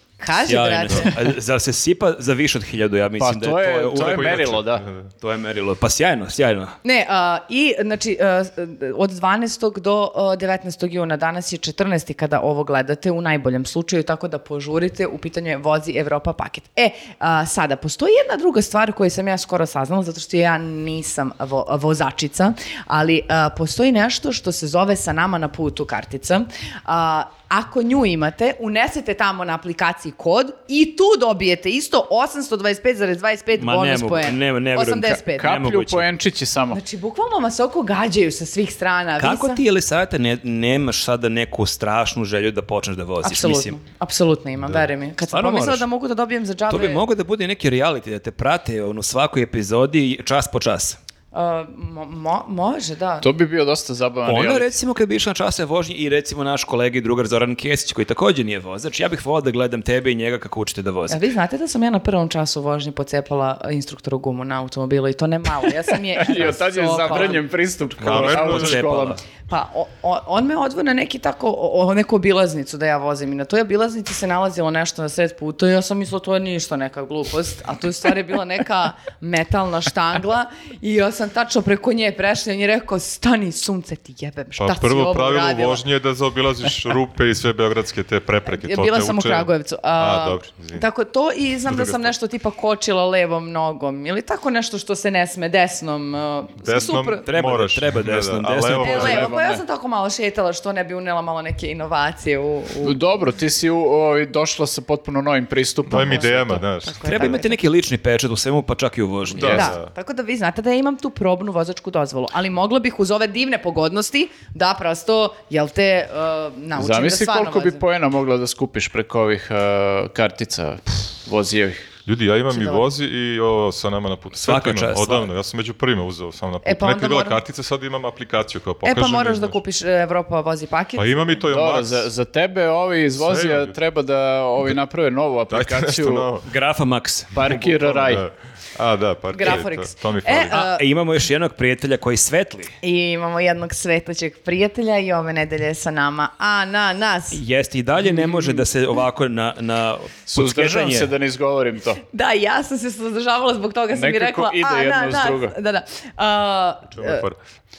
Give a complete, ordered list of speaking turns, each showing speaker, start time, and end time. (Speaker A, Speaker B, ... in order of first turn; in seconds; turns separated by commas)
Speaker A: 0.2-1.3, Speaker B: 0.5-4.6, Speaker C: 3.2-4.8, Speaker D: 4.0-5.1, Speaker B: 5.2-6.8, Speaker A: 6.8-35.5, Speaker B: 33.6-36.1, Speaker C: 35.3-36.8, Speaker A: 36.7-39.6, Speaker B: 39.2-43.8, Speaker A: 43.2-47.0, Speaker B: 45.3-45.9, Speaker B: 46.7-51.0, Speaker A: 51.3-53.3, Speaker C: 53.2-54.7, Speaker B: 54.2-61.2, Speaker A: 61.1-67.4, Speaker C: 66.2-69.2, Speaker D: 68.0-68.8, Speaker B: 68.0-69.2, Speaker A: 69.5-85.8, Speaker D: 84.6-90.8, Speaker A: 88.5-97.2, Speaker D: 91.7-92.1, Speaker D: 96.6-99.3, Speaker B: 97.2-99.2, Speaker A: 98.8-103.0, Speaker C: 98.8-99.6, Speaker C: 102.8-106.7, Speaker D: 105.9-107.3, Speaker A: 106.8-107.6, Speaker B: 107.0-109.7, Speaker D: 109.3-109.9, Speaker C: 109.4-109.7, Speaker A: 109.5-117.8, Speaker C: 116.8-121.9, Speaker D: 122.1-129.6, Speaker A: 122.5-122.8, Speaker B: 124.4-125.3, Speaker A: 126.6-127.4, Speaker A: 128.8-131.3, Speaker D: 131.0-132.1, Speaker C: 131.5-136.3, Speaker D: 133.2-133.8, Speaker D: 135.5-136.5, Speaker B: 136.5-137.7, Speaker C: 137.3-138.2, Speaker D: 137.5-140.6, Speaker A: 139.3-140.8, Speaker B: 140.5-142.7, Speaker A: 142.8-147.4, Speaker B: 147.3-151.1, Speaker C: 148.2-148.6, Speaker C: 150.3-152.0, Speaker A: 152.1-157.2, Speaker C: 153.9-155.6, Speaker D: 156.9-157.4